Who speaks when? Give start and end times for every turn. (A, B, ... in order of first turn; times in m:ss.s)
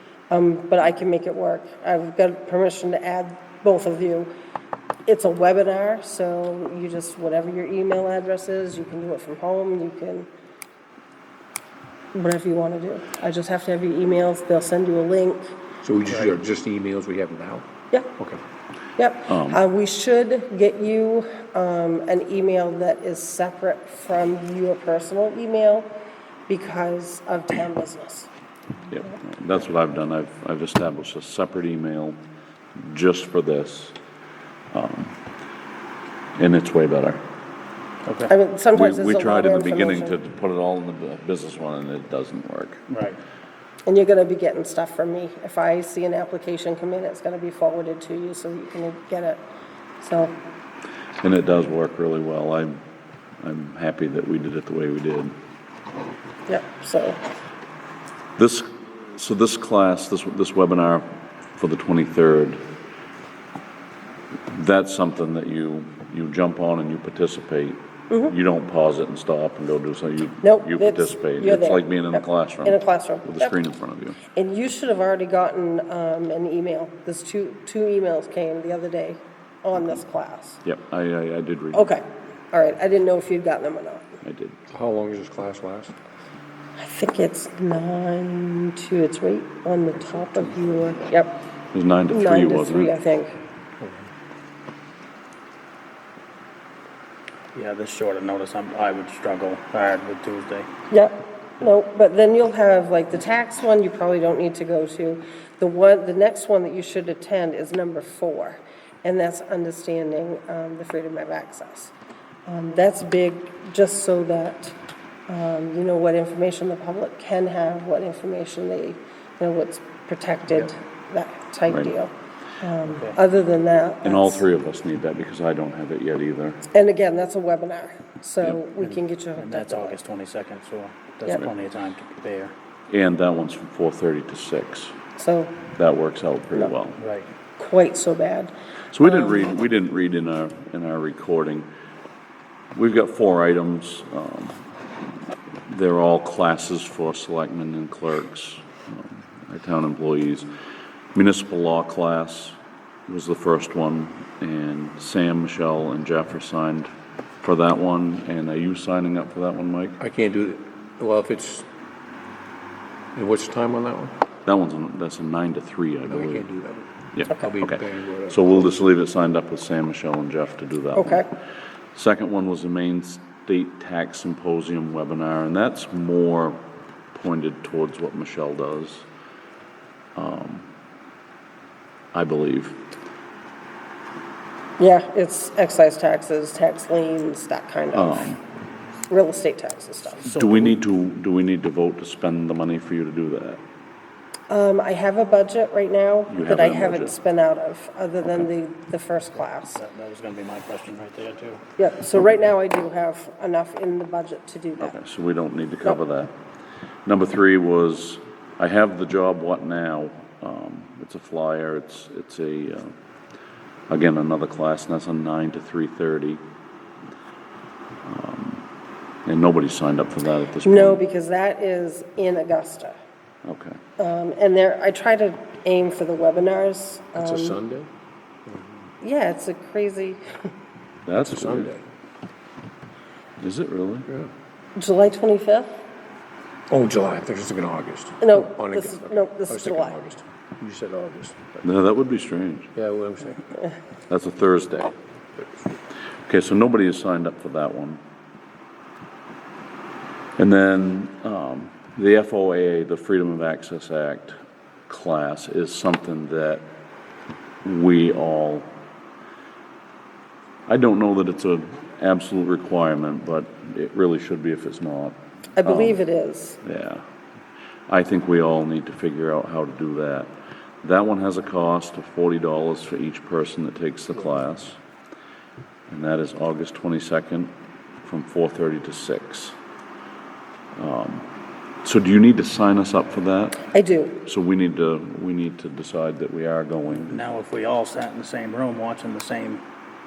0:00.3-0:04.3 A
0:05.0-0:10.3 A
0:12.1-0:15.5 A
0:15.8-0:18.4 B
0:19.0-0:25.9 A
0:19.3-0:19.6 C
0:26.5-0:28.3 A
0:28.9-0:32.2 C
0:32.8-0:34.0 C
0:34.7-0:35.2 C
0:36.4-0:37.2 C
0:38.0-0:38.3 D
0:38.3-0:40.1 A
0:38.7-0:42.8 C
0:42.9-0:43.2 D
0:43.8-0:49.4 A
0:50.0-0:50.3 A
0:51.2-0:52.8 C
0:53.4-0:55.3 C
0:56.5-0:57.2 A
0:58.4-1:02.6 C
1:04.5-1:14.2 C
1:10.4-1:13.5 A
1:14.3-1:20.6 A
1:20.6-1:21.9 C
1:21.7-1:24.2 A
1:24.2-1:24.6 C
1:24.7-1:25.9 B
1:26.8-1:31.4 A
1:31.7-1:32.9 C
1:32.1-1:33.4 A
1:37.5-1:40.7 D
1:40.9-1:51.9 A
1:52.4-1:54.8 A
1:55.3-2:04.4 A
2:01.7-2:01.9 C
2:04.0-2:06.7 C
2:06.7-2:10.0 A
2:08.8-2:12.5 D
2:12.9-2:14.9 C
2:15.2-2:15.6 A
2:15.7-2:17.0 C
2:17.0-2:17.3 D
2:17.6-2:19.4 A
2:18.9-2:21.7 C
2:22.7-2:24.6 C
2:25.7-2:30.5 C
2:31.1-2:36.9 C
2:37.4-2:40.0 C
2:40.0-2:41.7 B
2:43.1-2:44.1 B
2:44.4-2:46.5 C
2:46.1-2:48.7 B
2:47.1-2:51.3 C
2:51.0-2:51.2 A
2:51.9-2:56.6 C
2:57.1-2:59.0 C
3:00.2-3:00.7 C
3:02.1-3:02.8 C
3:04.8-3:08.3 A
3:07.9-3:08.4 C
3:09.1-3:10.3 A
3:10.3-3:13.6 C
3:10.3-3:10.7 D
3:14.5-3:19.8 A
3:16.3-3:17.1 C
3:19.8-3:21.6 D
3:21.8-3:24.9 A
3:24.8-3:26.3 C
3:27.0-3:32.9 C
3:33.9-3:36.4 C
3:38.0-3:38.6 C
3:39.2-3:41.0 C
3:40.6-3:43.0 A
3:43.4-3:43.8 C
3:44.0-3:47.6 A
3:47.2-3:47.9 B
3:48.5-3:48.7 B
3:49.0-3:50.2 A
3:51.0-3:51.7 C
3:51.2-3:51.8 B
3:53.4-3:54.1 C
3:54.8-3:55.7 A
3:56.7-4:01.6 B
3:58.2-4:00.0 A
4:01.6-4:02.7 C
4:02.8-4:03.4 B
4:04.1-4:04.9 C
4:06.3-4:08.0 C
4:10.4-4:14.4 C
4:14.9-4:16.6 C
4:17.6-4:18.7 C
4:20.7-4:26.0 C
4:25.6-4:26.6 A
4:26.6-4:27.0 C
4:27.9-4:34.8 C
4:35.9-4:37.5 C
4:38.0-4:39.5 C
4:40.8-4:41.2 C
4:41.8-4:43.7 C
4:43.7-4:44.2 A
4:44.2-4:47.2 C
4:47.1-4:49.6 D